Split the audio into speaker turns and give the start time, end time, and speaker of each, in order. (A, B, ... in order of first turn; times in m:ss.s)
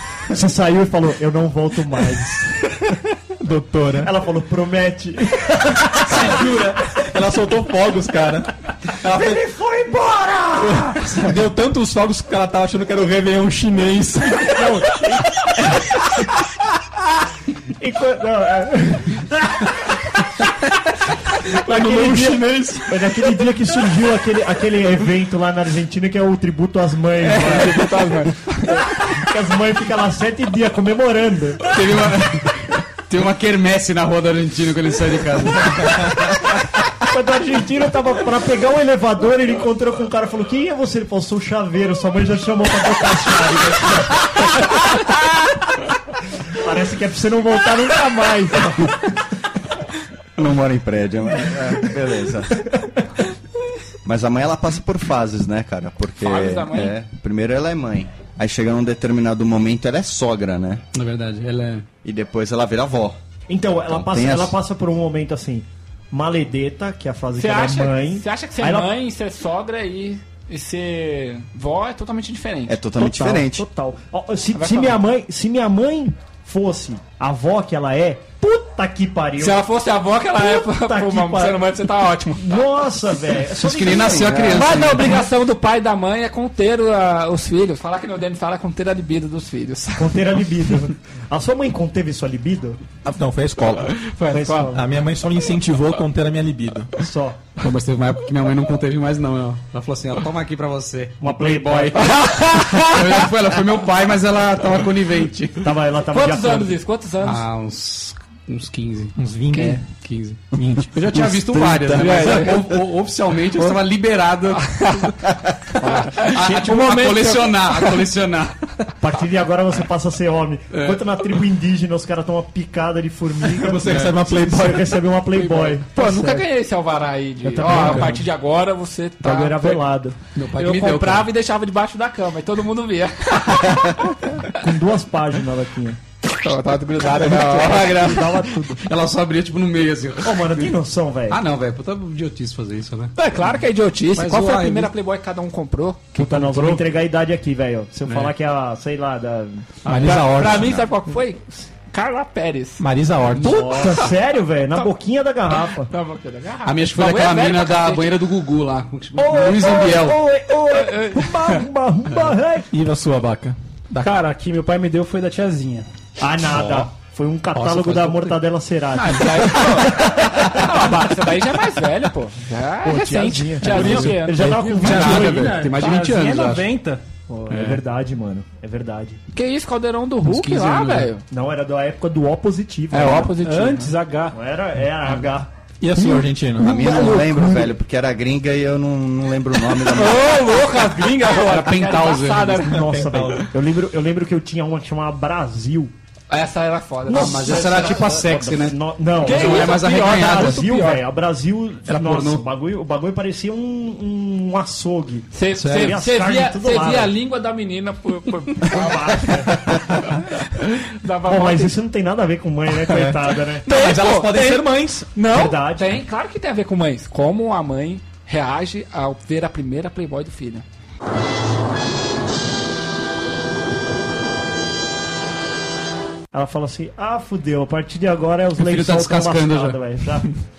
0:00.3-0:02.9 A
0:03.4-0:04.1 B
0:04.0-0:06.7 A
0:06.0-0:09.4 B
0:09.1-0:11.2 A
0:10.6-0:14.8 B
0:14.4-0:16.1 A
0:17.8-0:19.9 A
0:21.5-0:28.0 A
0:21.6-0:23.0 B
0:27.2-0:28.9 C
0:28.7-0:31.7 A
0:31.6-0:36.4 D
0:37.0-0:45.2 A
0:46.5-0:49.1 A
0:50.4-0:52.6 E
0:54.0-1:00.8 E
0:56.2-0:57.0 C
1:00.9-1:01.9 D
1:02.0-1:03.2 E
1:03.5-1:08.9 A
1:03.9-1:04.6 E
1:07.4-1:12.8 C
1:12.7-1:13.6 E
1:13.0-1:19.6 A
1:14.5-1:15.0 C
1:19.4-1:22.6 C
1:20.3-1:21.7 A
1:22.3-1:25.2 A
1:23.6-1:25.2 D
1:24.5-1:30.2 C
1:30.0-1:32.8 A
1:33.0-1:34.0 B
1:34.2-1:34.7 C
1:34.3-1:34.8 A
1:34.7-1:37.0 B
1:37.0-1:37.4 A
1:37.6-1:45.7 D
1:41.2-1:42.2 A
1:42.0-1:43.0 C
1:45.6-1:46.8 A
1:46.1-1:47.4 C
1:47.2-1:50.4 D
1:49.2-1:49.8 B
1:49.5-1:49.8 C
1:50.5-1:52.5 B
1:50.9-1:54.9 D
1:51.9-1:52.6 C
1:54.6-1:55.1 C
1:55.8-1:57.9 C
1:55.9-1:58.6 D
1:59.0-2:06.5 A
2:00.7-2:01.0 D
2:03.5-2:05.0 B
2:03.8-2:04.1 D
2:05.4-2:09.8 C
2:07.4-2:08.2 A
2:07.7-2:08.0 B
2:07.7-2:08.0 D
2:09.2-2:10.2 A
2:10.3-2:11.3 D
2:10.5-2:14.6 C
2:14.5-2:16.0 A
2:16.4-2:18.2 C
2:17.2-2:18.8 A
2:17.6-2:20.8 D
2:20.2-2:21.4 A
2:21.3-2:23.1 D
2:23.2-2:26.6 C
2:24.2-2:24.9 D
2:26.1-2:30.7 A
2:28.0-2:28.3 D
2:29.8-2:30.9 B
2:30.0-2:32.8 C
2:32.8-2:33.9 B
2:33.3-2:34.0 D
2:33.4-2:35.9 A
2:33.8-2:34.1 C
2:35.6-2:38.1 C
2:36.6-2:40.2 D
2:39.2-2:42.7 A
2:40.7-2:41.6 C
2:42.7-2:44.2 B
2:44.0-2:45.9 F
2:46.2-2:51.0 A
2:46.5-2:46.8 D
2:47.6-2:48.2 B
2:47.6-2:48.2 D
2:48.9-2:54.7 C
2:52.8-2:55.5 A
2:53.6-2:55.4 B
2:54.8-2:56.7 D
2:54.8-2:57.0 F
2:57.3-2:59.2 A
2:57.5-2:57.8 D
2:59.3-3:01.2 C
3:00.2-3:01.1 D
3:01.3-3:03.3 A
3:02.9-3:03.9 C
3:03.4-3:04.3 F
3:04.3-3:05.5 A
3:05.8-3:07.5 B
3:06.6-3:10.7 E
3:09.8-3:12.8 C
3:11.2-3:12.7 D
3:12.6-3:15.9 A
3:12.7-3:13.4 B
3:16.3-3:18.2 C
3:17.1-3:27.1 A
3:17.1-3:20.6 D
3:19.2-3:21.0 C
3:21.9-3:22.5 D
3:25.3-3:31.8 C
3:25.6-3:25.9 D
3:28.6-3:30.0 A
3:31.2-3:33.6 A
3:32.9-3:35.1 B
3:33.6-3:40.6 C
3:35.2-3:36.0 A
3:46.3-3:50.3 A
3:48.6-3:49.8 D